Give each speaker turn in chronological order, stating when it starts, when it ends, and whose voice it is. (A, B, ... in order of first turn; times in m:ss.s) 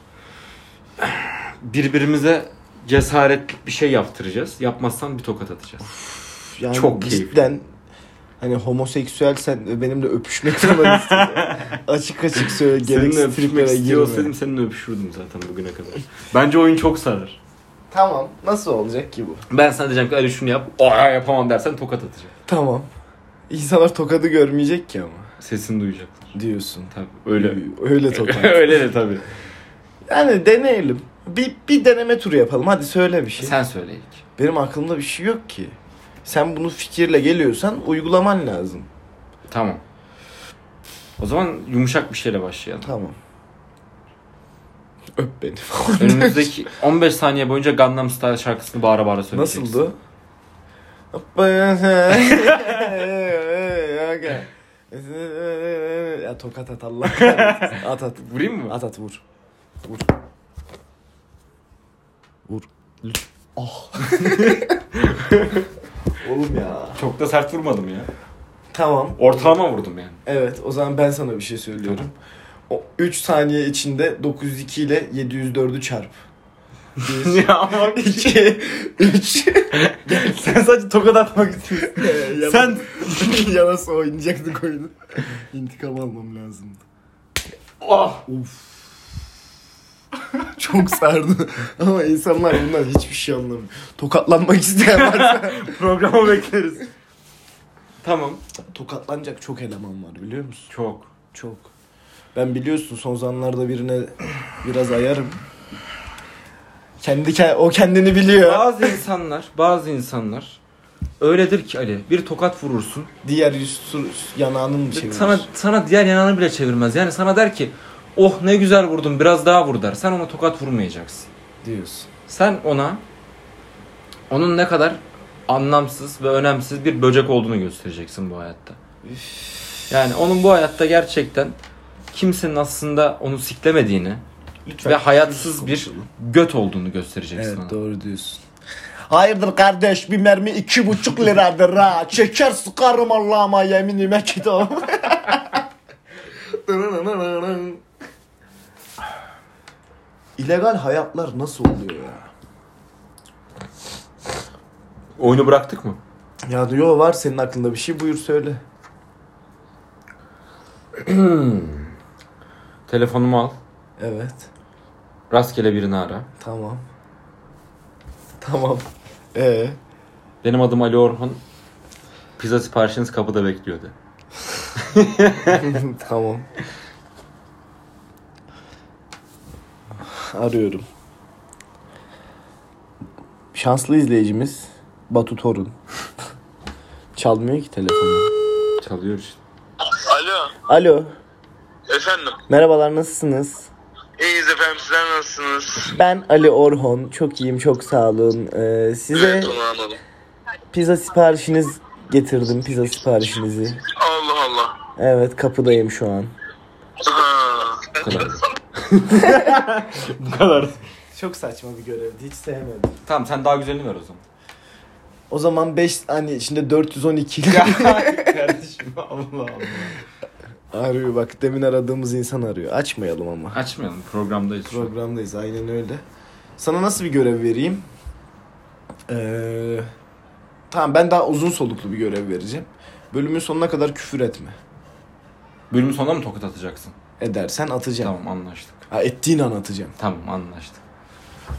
0:01.0-0:05.9 A
0:06.0-0:07.6 B
0:06.7-0:07.4 A
0:08.4-0:14.3 B
0:10.6-0:11.8 A
0:12.4-0:17.4 A
0:17.9-0:19.4 B
0:19.5-0:22.3 A
0:22.4-0:22.9 B
0:23.5-0:25.3 B
0:25.4-0:26.3 A
0:26.3-0:28.8 B
0:26.9-0:29.2 A
0:30.0-0:33.6 B
0:33.4-0:34.2 A
0:34.4-0:38.9 B
0:39.5-0:39.8 A
0:41.2-0:42.9 A
0:42.8-0:43.2 B
0:45.2-0:46.5 B
0:46.0-0:49.8 A
0:49.3-0:50.0 B
0:51.1-0:59.2 B
0:57.1-0:58.8 A
1:03.6-1:04.7 B
1:04.0-1:05.6 A
1:06.2-1:07.0 B
1:07.0-1:08.1 A
1:08.7-1:09.6 B
1:09.2-1:10.2 A
1:10.2-1:12.1 B
1:12.7-1:16.1 B
1:17.0-1:18.4 A
1:17.0-1:20.5 B
1:19.7-1:23.5 A
1:21.8-1:26.8 B
1:27.8-1:28.2 A
1:28.2-1:28.6 B
1:30.5-1:35.7 B
1:34.9-1:36.9 A
1:38.0-1:38.4 A
1:38.7-1:40.7 B
1:40.7-1:41.1 A
1:41.3-1:41.7 B
1:42.3-1:45.4 B
1:47.0-1:49.0 B
1:48.4-1:50.6 A
1:51.2-1:53.1 A
1:53.2-1:55.5 B
1:54.9-2:01.3 A
2:01.6-2:02.1 B
2:02.3-2:03.0 A
2:04.3-2:08.8 A
2:09.0-2:09.8 B
2:09.9-2:11.6 A
2:12.1-2:14.2 A
2:14.6-2:16.1 B
2:14.8-2:17.8 A
2:17.3-2:18.4 B
2:19.1-2:25.6 B
2:26.3-2:27.8 B
2:30.4-2:32.3 B
2:35.2-2:36.0 A
2:36.4-2:38.6 B
2:41.0-2:41.9 A
2:42.9-2:43.6 A
2:44.0-2:44.5 B
2:45.3-2:46.3 A
2:46.4-2:46.8 B
2:48.4-2:49.8 B
2:50.4-2:51.4 A
2:52.4-2:53.9 A
2:54.7-2:55.8 A
2:55.5-2:56.5 B
3:00.0-3:00.8 B
3:03.5-3:05.7 B
3:07.2-3:08.3 B
3:08.8-3:09.4 A
3:09.8-3:10.5 C
3:10.6-3:11.1 B
3:11.9-3:12.4 C
3:12.5-3:13.7 B
3:14.2-3:15.9 C
3:15.8-3:19.6 B
3:19.1-3:20.0 C
3:20.7-3:23.8 B
3:24.0-3:24.8 C
3:25.0-3:26.3 B
3:27.0-3:28.4 C
3:28.0-3:30.8 A
3:31.1-3:33.0 B
3:33.0-3:34.2 A
3:35.3-3:38.5 B
3:37.5-3:40.0 A
3:40.7-3:43.6 B
3:43.5-3:44.9 A
3:44.7-3:46.0 B
3:46.6-3:47.8 B
3:49.1-3:49.9 B
3:50.7-3:54.6 B
3:55.7-3:56.9 A
3:57.2-3:58.1 B
3:58.0-3:58.8 A
3:58.9-3:59.9 B
4:00.0-4:00.8 A